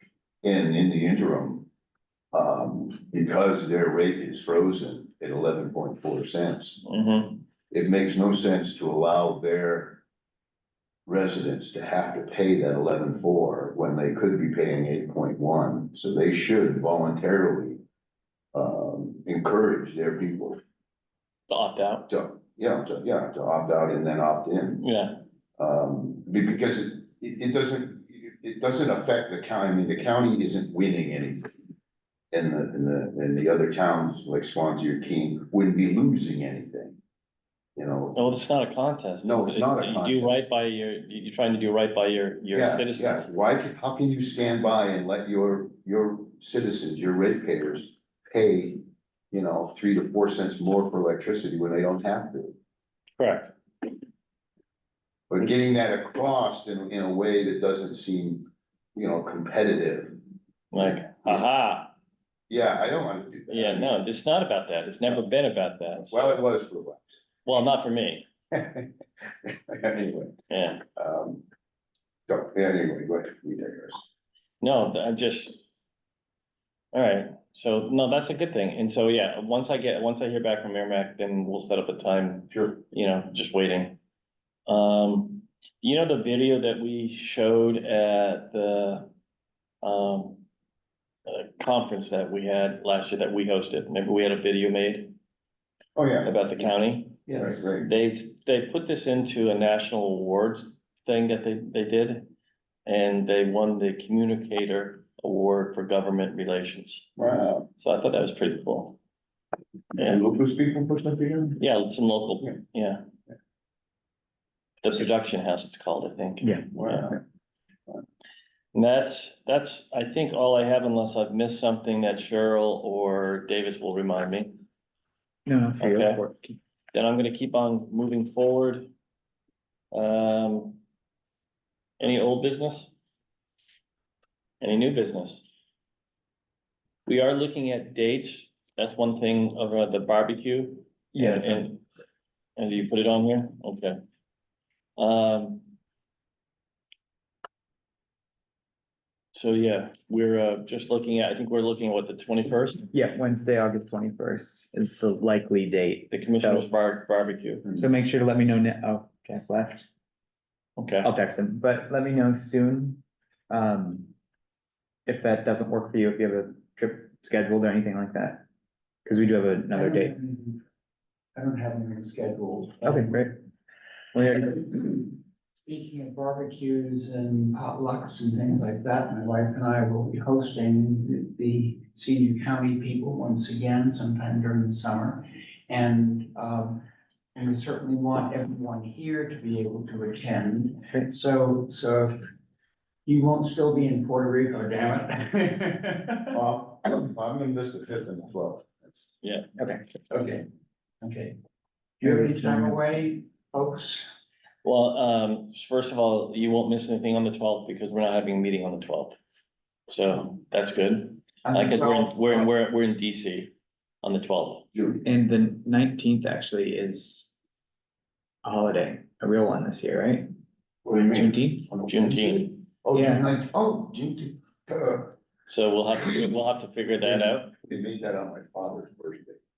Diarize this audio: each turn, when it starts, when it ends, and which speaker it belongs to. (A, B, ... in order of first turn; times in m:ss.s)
0:00.4-0:01.7 A
0:02.3-0:06.8 A
0:06.8-0:07.4 B
0:07.7-0:10.0 A
0:11.0-0:17.8 A
0:18.5-0:20.6 A
0:21.5-0:22.1 B
0:22.1-0:24.8 A
0:24.8-0:25.2 B
0:25.6-0:31.5 A
0:32.3-0:37.0 A
0:37.8-0:38.2 A
0:38.1-0:43.3 B
0:39.2-0:40.4 A
0:42.5-0:52.6 A
0:53.2-0:53.5 B
0:55.3-1:00.2 A
1:00.7-1:01.9 B
1:00.8-1:01.4 A
1:02.5-1:04.0 A
1:03.5-1:06.4 B
1:06.1-1:07.0 A
1:07.4-1:08.2 B
1:08.5-1:08.9 A
1:09.4-1:10.4 A
1:10.5-1:10.8 B
1:10.9-1:11.4 A
1:12.3-1:14.0 A
1:14.6-1:15.6 B
1:16.9-1:24.0 B
1:22.5-1:22.8 A
1:24.7-1:29.1 B
1:29.8-1:30.4 B
1:31.2-1:35.1 B
1:36.0-1:36.3 A
1:36.2-1:42.3 B
1:37.3-1:37.9 A
1:42.8-1:47.1 B
1:47.2-1:47.7 A
1:47.8-1:49.0 B
1:49.9-1:51.6 A
1:51.6-1:53.0 B
1:54.8-1:57.2 B
1:56.7-1:57.2 A
1:58.7-2:04.6 B
2:05.4-2:06.6 C
2:05.8-2:06.2 B
2:06.9-2:08.9 B
2:09.9-2:10.8 B
2:12.0-2:12.9 B
2:14.6-2:15.5 B
2:17.0-2:21.8 B
2:21.1-2:21.6 C
2:22.6-2:24.0 B
2:25.0-2:25.7 B
2:29.3-2:32.9 B
2:32.9-2:36.7 C
2:36.1-2:37.7 B
2:37.7-2:39.9 C
2:40.8-2:41.1 B
2:41.0-2:44.1 C
2:45.0-2:48.4 C
2:49.0-2:50.1 C
2:49.7-2:50.6 D
2:51.3-2:53.1 D
2:52.8-2:53.4 C
2:54.1-2:55.0 C
2:55.6-3:06.8 D
3:07.3-3:12.2 D
3:13.0-3:16.4 D
3:16.3-3:19.1 A
3:19.2-3:19.5 B
3:19.6-3:19.8 C
3:20.1-3:20.4 D
3:21.0-3:21.4 D
3:22.0-3:24.0 D
3:22.0-3:22.8 C
3:24.6-3:29.2 B
3:29.9-3:34.7 B
3:31.4-3:32.5 D
3:34.7-3:35.0 A
3:35.0-3:37.3 C
3:38.4-3:40.3 C
3:40.8-3:45.1 A
3:41.1-3:41.7 C
3:41.9-3:42.6 B
3:42.9-3:43.2 C
3:45.4-3:47.5 B
3:47.5-3:49.4 A